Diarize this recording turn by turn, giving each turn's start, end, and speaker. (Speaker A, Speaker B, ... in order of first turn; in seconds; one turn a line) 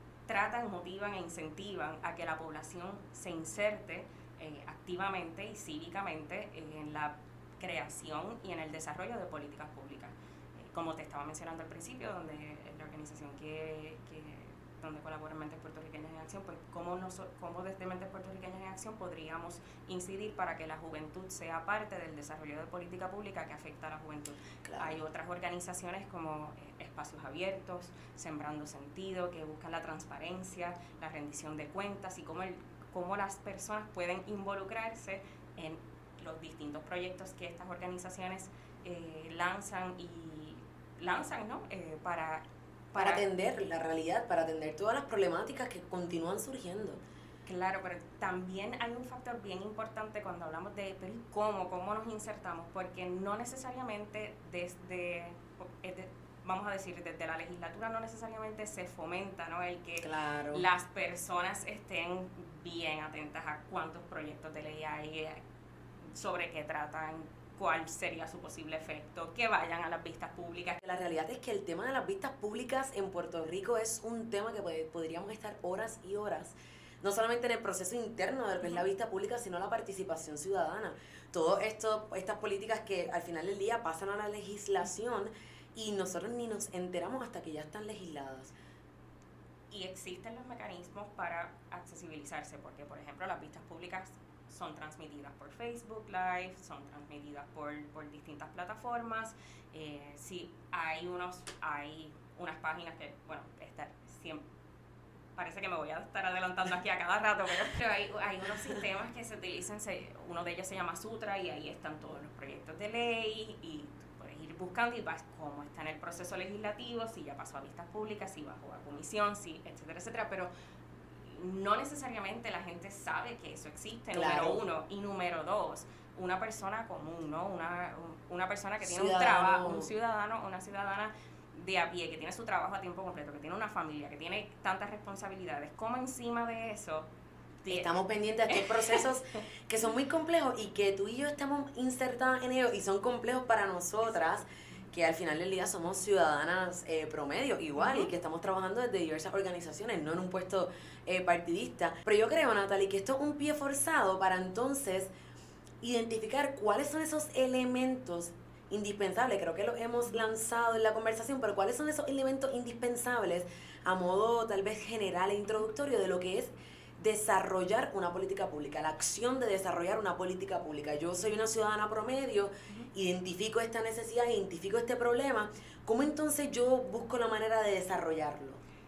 Speaker A: 0.3-43.2
Speaker B: 24.6-25.0
Speaker B: 43.0-47.0
Speaker A: 47.5-65.4
Speaker B: 60.0-60.6
Speaker A: 66.1-70.8
Speaker B: 70.8-88.5
Speaker A: 89.7-104.4
Speaker A: 105.4-120.5
Speaker A: 121.2-137.1
Speaker B: 124.1-124.6
Speaker B: 128.8-129.9
Speaker A: 137.6-138.0
Speaker B: 137.7-155.1
Speaker A: 138.5-139.1
Speaker A: 147.8-148.1
Speaker B: 155.8-178.6